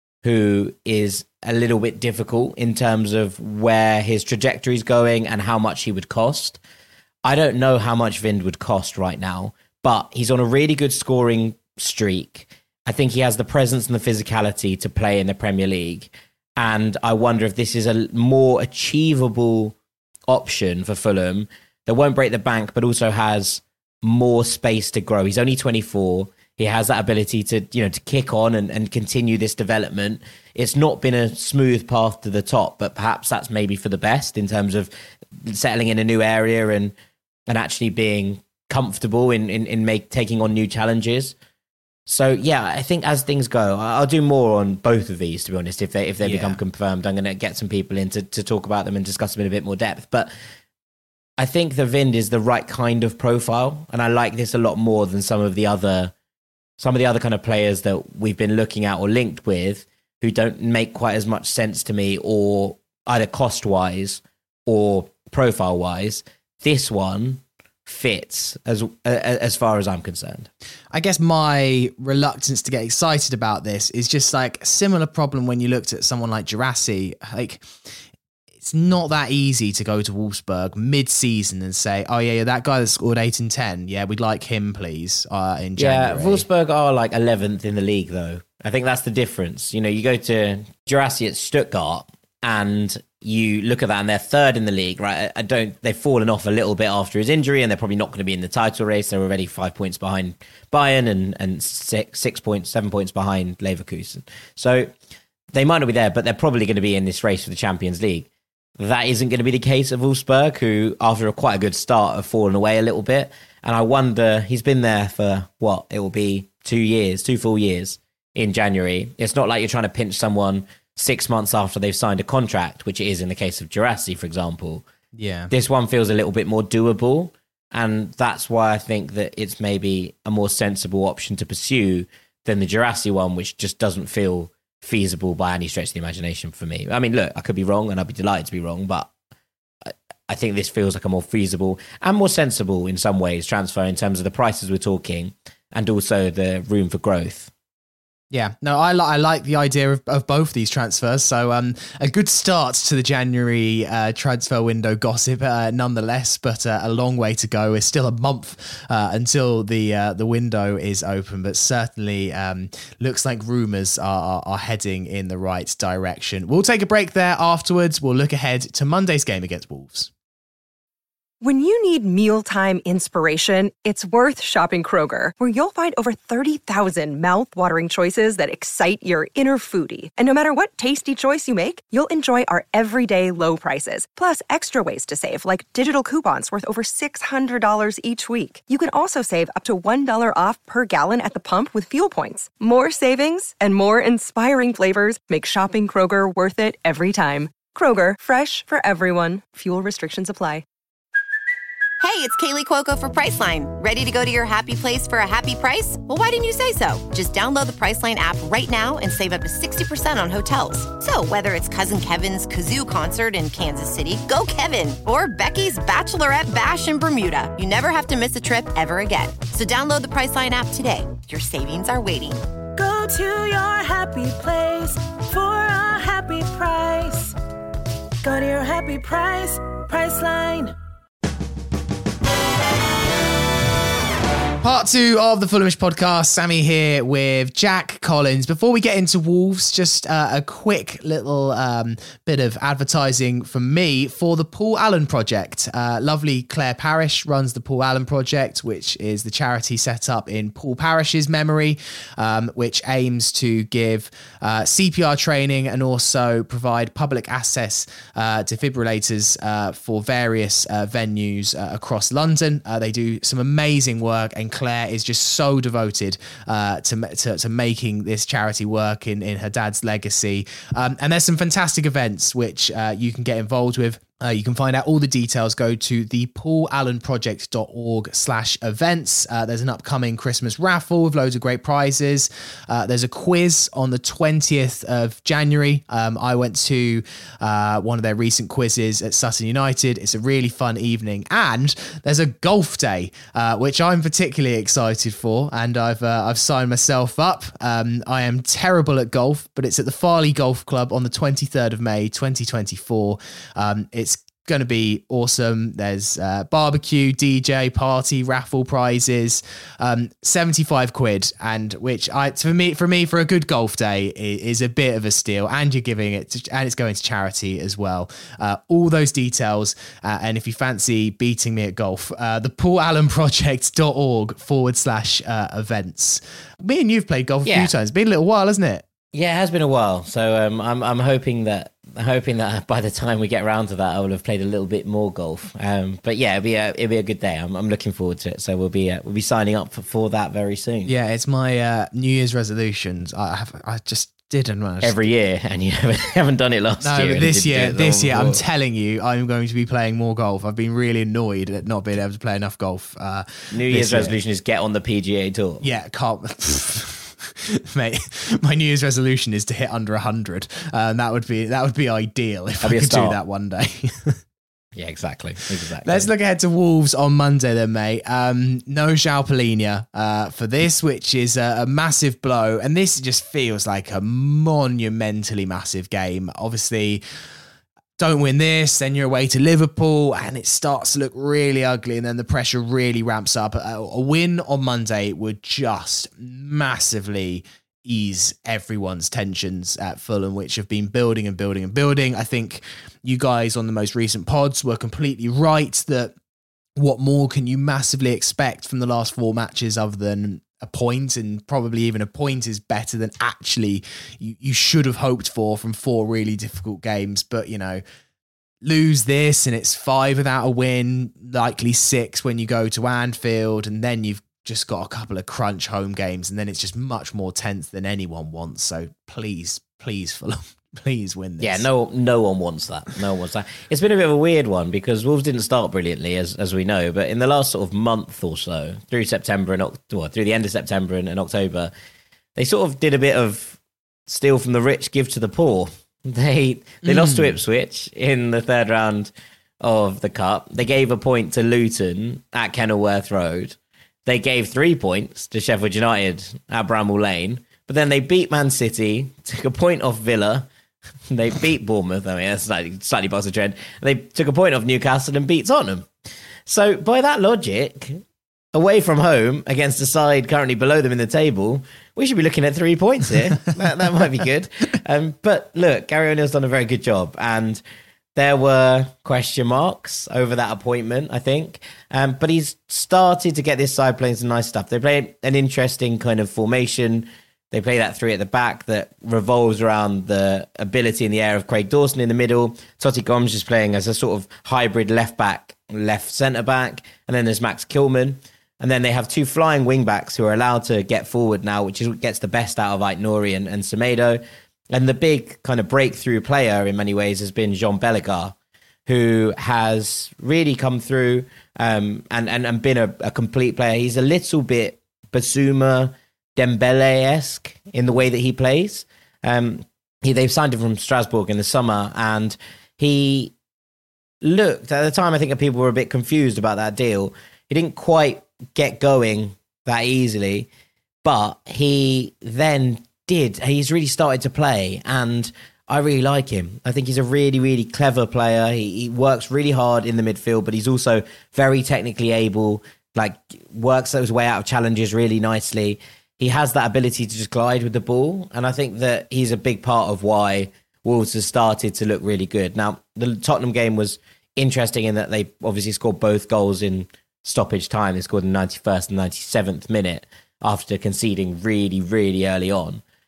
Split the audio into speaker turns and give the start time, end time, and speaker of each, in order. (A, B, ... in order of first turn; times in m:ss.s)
0:00.2-0:06.6 A
0:07.2-0:19.8 A
0:20.3-0:34.9 A
0:35.4-0:36.9 A
0:37.5-0:41.4 A
0:42.1-0:50.3 A
0:46.2-0:46.6 B
0:51.4-0:56.1 A
0:56.8-1:10.5 A
1:10.9-1:17.9 B
1:18.6-1:26.4 B
1:25.8-1:44.9 A
1:45.5-1:48.3 A
1:48.8-2:04.8 A
2:05.1-2:05.5 B
2:05.5-2:19.1 A
2:19.8-2:27.5 A
2:28.3-2:50.1 B
2:51.4-3:20.6 C
3:22.0-3:42.4 D
3:42.8-3:47.3 E
3:48.2-3:50.7 E
3:54.6-5:28.8 B
5:27.4-5:27.7 A
5:29.1-5:40.9 A
5:40.9-5:45.0 B
5:44.8-5:48.4 A
5:46.8-5:54.2 B
5:53.5-5:55.6 A
5:55.6-6:04.2 B
6:02.6-6:03.2 A
6:04.8-6:06.1 A
6:05.8-6:17.0 B
6:18.0-6:36.1 B
6:36.8-6:47.8 B
6:48.6-7:01.7 B
7:01.4-7:11.7 A
7:12.4-7:30.5 A
7:16.8-7:17.4 B
7:31.1-7:35.9 A
7:36.5-7:38.0 A
7:38.5-7:47.6 A
7:48.2-8:14.2 A
8:14.7-8:18.4 A
8:18.9-8:33.3 A
8:34.2-8:40.5 A
8:41.0-9:12.8 A